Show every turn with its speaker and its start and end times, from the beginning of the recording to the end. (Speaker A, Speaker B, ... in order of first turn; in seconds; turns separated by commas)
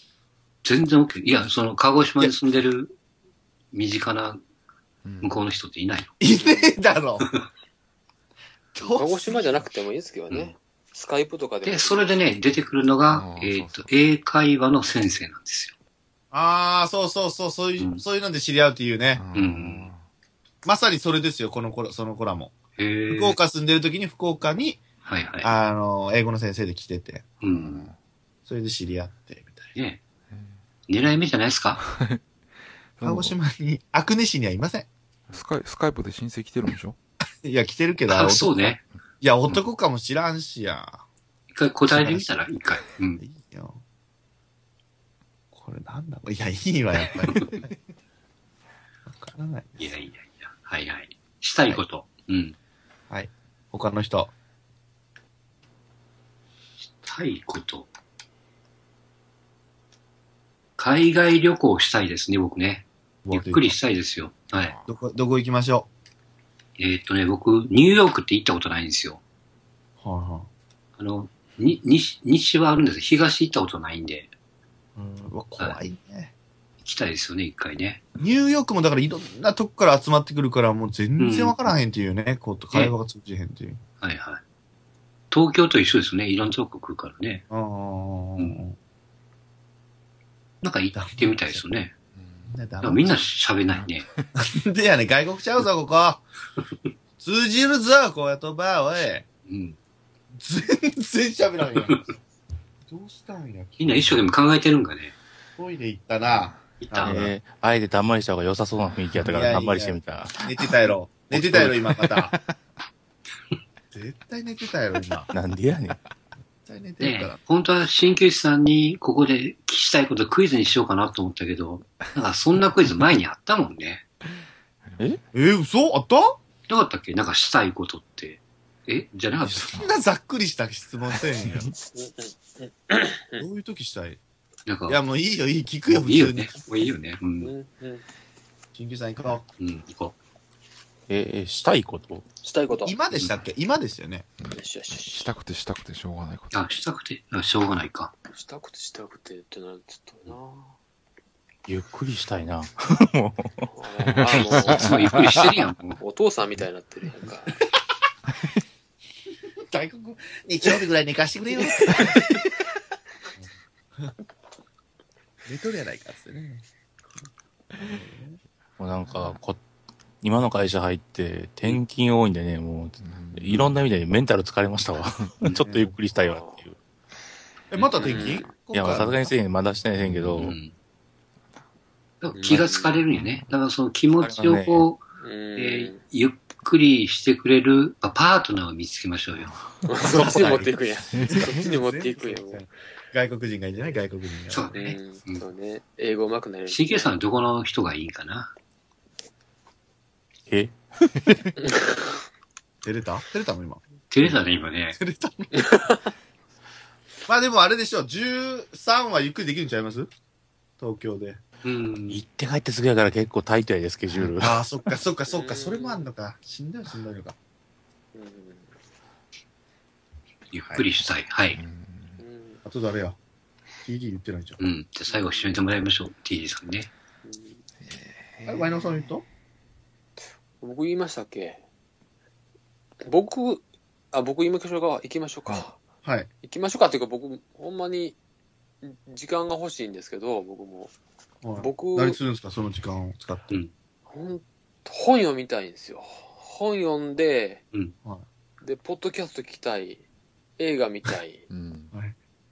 Speaker A: 0.6-3.0, Speaker A: 3.7-4.4, Speaker B: 5.0-5.3, Speaker A: 5.2-6.1, Speaker C: 6.2-7.3, Speaker D: 6.3-6.8, Speaker C: 8.7-9.7, Speaker D: 8.8-12.2, Speaker A: 11.6-15.7, Speaker B: 13.1-13.9, Speaker C: 16.3-19.2, Speaker A: 17.8-18.0, Speaker B: 19.1-20.0, Speaker A: 19.3-19.9, Speaker C: 20.6-22.6, Speaker A: 22.8-23.4, Speaker C: 23.1-24.8, Speaker A: 25.0-25.5, Speaker C: 25.4-27.2, Speaker A: 27.4-27.9, Speaker B: 27.4-27.9, Speaker C: 28.4-29.7, Speaker A: 30.9-31.8, Speaker B: 31.8-32.2, Speaker B: 33.0-33.3, Speaker C: 33.0-34.9, Speaker B: 35.3-37.0, Speaker C: 37.4-41.0, Speaker A: 38.1-38.8, Speaker A: 41.5-43.2, Speaker C: 41.9-42.3, Speaker C: 43.2-43.8, Speaker C: 45.5-47.7, Speaker C: 49.1-50.0, Speaker A: 49.8-52.5, Speaker C: 53.1-54.3, Speaker A: 57.0-57.9, Speaker A: 60.8-64.7, Speaker C: 63.2-63.8, Speaker B: 64.5-64.9, Speaker C: 64.9-65.9, Speaker A: 66.8-69.2, Speaker C: 70.0-70.5, Speaker A: 71.0-74.3, Speaker C: 75.0-76.3, Speaker A: 76.8-78.0, Speaker C: 78.2-83.8, Speaker A: 81.2-81.5, Speaker A: 84.0-84.4, Speaker A: 85.3-87.4, Speaker C: 87.5-88.8, Speaker A: 90.6-91.9, Speaker C: 90.9-91.6, Speaker B: 92.2-92.6, Speaker C: 92.4-93.2, Speaker A: 92.8-94.0, Speaker B: 93.7-94.2, Speaker C: 94.3-96.2, Speaker C: 97.2-99.2, Speaker A: 99.5-99.8, Speaker C: 100.3-102.0, Speaker A: 101.8-102.1, Speaker C: 102.8-104.2, Speaker A: 103.8-105.2, Speaker C: 105.6-107.3, Speaker B: 106.3-106.6, Speaker A: 106.8-107.2, Speaker E: 107.0-110.4, Speaker C: 109.2-112.4, Speaker E: 111.3-111.7, Speaker B: 112.0-112.5, Speaker C: 113.9-115.3, Speaker E: 115.3-116.0, Speaker C: 116.6-117.4, Speaker A: 117.0-124.0, Speaker B: 124.9-125.2, Speaker C: 125.3-126.4, Speaker A: 126.7-129.7, Speaker C: 129.4-131.7, Speaker D: 131.9-133.4, Speaker C: 133.4-134.2, Speaker A: 134.7-135.0, Speaker C: 134.9-136.7, Speaker A: 135.9-137.5, Speaker D: 137.4-138.0, Speaker C: 138.7-139.4, Speaker A: 139.6-140.1, Speaker E: 141.1-142.2, Speaker D: 142.4-142.9, Speaker C: 142.8-144.3, Speaker B: 144.4-146.5, Speaker D: 144.5-145.3, Speaker A: 146.5-148.1, Speaker D: 148.3-150.8, Speaker E: 151.7-153.7, Speaker D: 153.7-157.6, Speaker B: 154.1-155.4, Speaker A: 154.3-156.0, Speaker C: 159.6-162.2, Speaker C: 165.4-166.6, Speaker C: 167.8-168.4, Speaker E: 168.8-169.6, Speaker B: 169.1-169.4, Speaker E: 170.2-176.8, Speaker B: 173.0-173.8, Speaker C: 175.6-175.9, Speaker D: 176.3-176.5, Speaker C: 177.7-179.3, Speaker A: 177.8-178.3, Speaker D: 177.9-178.5, Speaker E: 178.7-180.6, Speaker B: 179.9-180.6, Speaker A: 180.4-180.7, Speaker A: 182.2-189.5, Speaker D: 182.3-183.0, Speaker B: 183.1-183.5, Speaker E: 184.2-184.8, Speaker D: 185.2-186.0, Speaker D: 189.8-192.7, Speaker E: 189.9-190.8, Speaker B: 191.1-191.5, Speaker C: 191.3-194.8, Speaker A: 194.5-195.5, Speaker D: 194.7-197.2, Speaker A: 196.7-198.5, Speaker E: 200.5-201.4, Speaker D: 201.6-202.2, Speaker C: 202.8-203.8, Speaker A: 204.1-205.0, Speaker C: 204.9-205.6, Speaker D: 205.5-206.1, Speaker C: 207.3-210.1, Speaker C: 210.8-211.4, Speaker A: 211.6-212.2, Speaker E: 212.1-214.6, Speaker C: 214.2-217.3, Speaker D: 215.3-216.1, Speaker D: 218.1-218.7, Speaker A: 220.5-221.6, Speaker B: 221.5-222.2, Speaker D: 222.2-222.6, Speaker C: 222.6-223.2, Speaker C: 223.8-224.6, Speaker A: 224.6-226.9, Speaker D: 225.1-225.6, Speaker D: 227.2-227.6, Speaker B: 227.8-229.1, Speaker C: 228.4-229.2, Speaker D: 230.6-231.6, Speaker D: 233.0-235.8, Speaker D: 236.4-238.2, Speaker D: 238.8-240.9, Speaker C: 241.4-243.6, Speaker D: 241.6-242.2, Speaker D: 244.1-247.6, Speaker D: 248.6-250.0, Speaker D: 250.6-251.4, Speaker B: 251.5-251.9